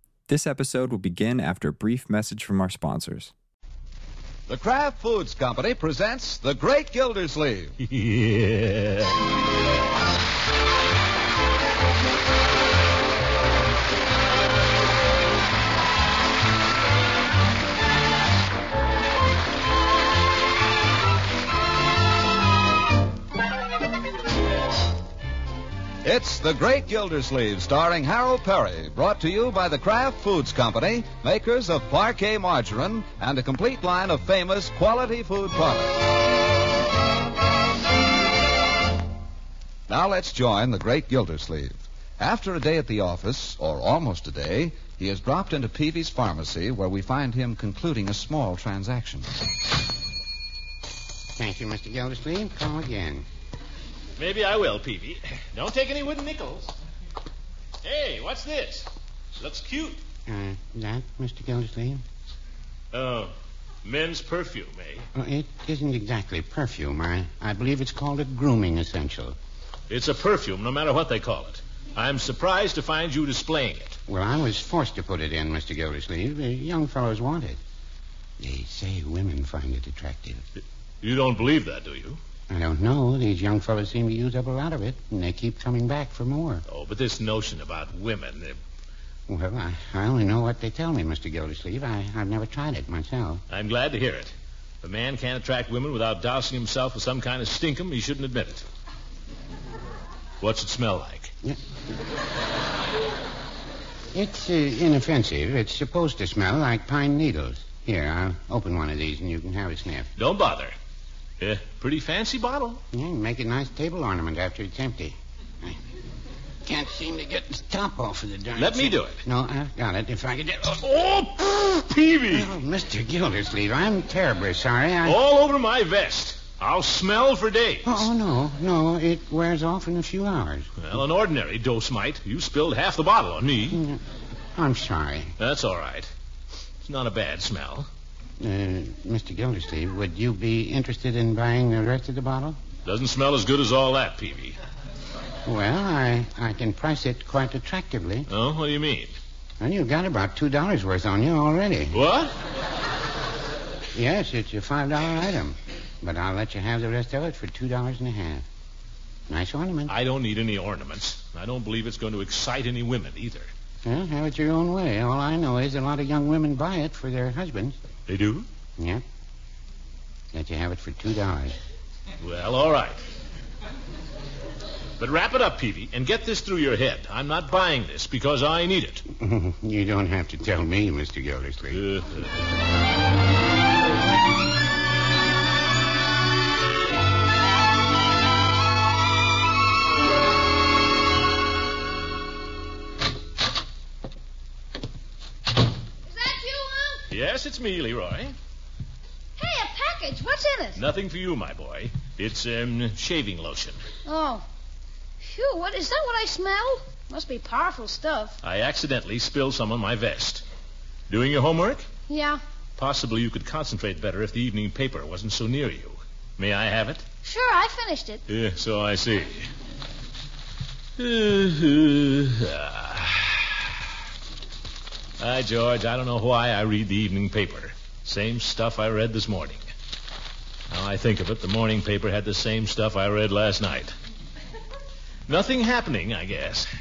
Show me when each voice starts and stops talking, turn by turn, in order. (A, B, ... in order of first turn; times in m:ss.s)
0:00.3-0:03.3 A
0:04.5-0:07.7 B
0:07.8-0:09.2 C
0:26.0-0:36.0 B
0:39.9-0:49.3 B
0:51.4-0:53.2 D
0:54.2-0:56.7 C
0:57.8-1:00.0 C
1:00.3-1:02.0 D
1:02.9-1:03.3 C
1:03.8-1:05.0 C
1:05.2-1:09.4 D
1:09.9-1:14.0 C
1:14.1-1:17.6 D
1:18.4-1:20.4 D
1:20.6-1:22.2 C
1:22.5-1:26.6 D
1:26.7-1:28.6 C
1:29.3-1:33.4 D
1:33.5-1:38.6 C
1:40.4-1:41.3 C
1:44.1-1:50.1 D
1:50.2-1:50.7 C
1:51.4-1:52.8 C
1:52.9-1:55.8 D
1:56.6-2:00.8 D
1:58.6-1:59.2 C
2:00.8-2:02.5 C
2:02.3-2:05.2 D
2:05.0-2:08.1 C
2:07.8-2:10.7 D
2:10.8-2:13.8 C
2:13.7-2:14.0 D
2:14.5-2:15.3 D
2:15.4-2:16.1 C
2:16.8-2:17.9 C
2:18.4-2:22.6 D
2:22.8-2:24.6 C
2:25.4-2:28.3 D
2:28.3-2:29.2 C
2:29.6-2:32.0 D
2:31.9-2:32.3 C
2:33.9-2:38.4 D
2:39.3-2:39.9 D
2:39.9-2:43.5 C
2:43.8-2:47.8 D
2:48.1-2:48.4 C
2:48.8-2:49.0 D
2:50.3-2:51.6 D
2:52.2-2:53.0 C
2:55.0-2:59.0 C
2:59.2-3:01.8 D
3:01.7-3:02.1 C
3:16.0-3:17.0 E
3:17.1-3:18.3 C
3:19.4-3:20.8 E
3:20.8-3:23.8 C
3:24.0-3:24.4 E
3:25.2-3:28.4 E
3:28.4-3:30.4 C
3:31.1-3:31.9 C
3:32.1-3:32.4 E
3:32.8-3:37.0 C
3:37.2-3:38.2 E
3:38.3-3:39.5 C
3:41.0-3:43.7 C
3:45.2-3:49.6 C
3:50.7-3:53.9 C
3:55.3-3:56.7 C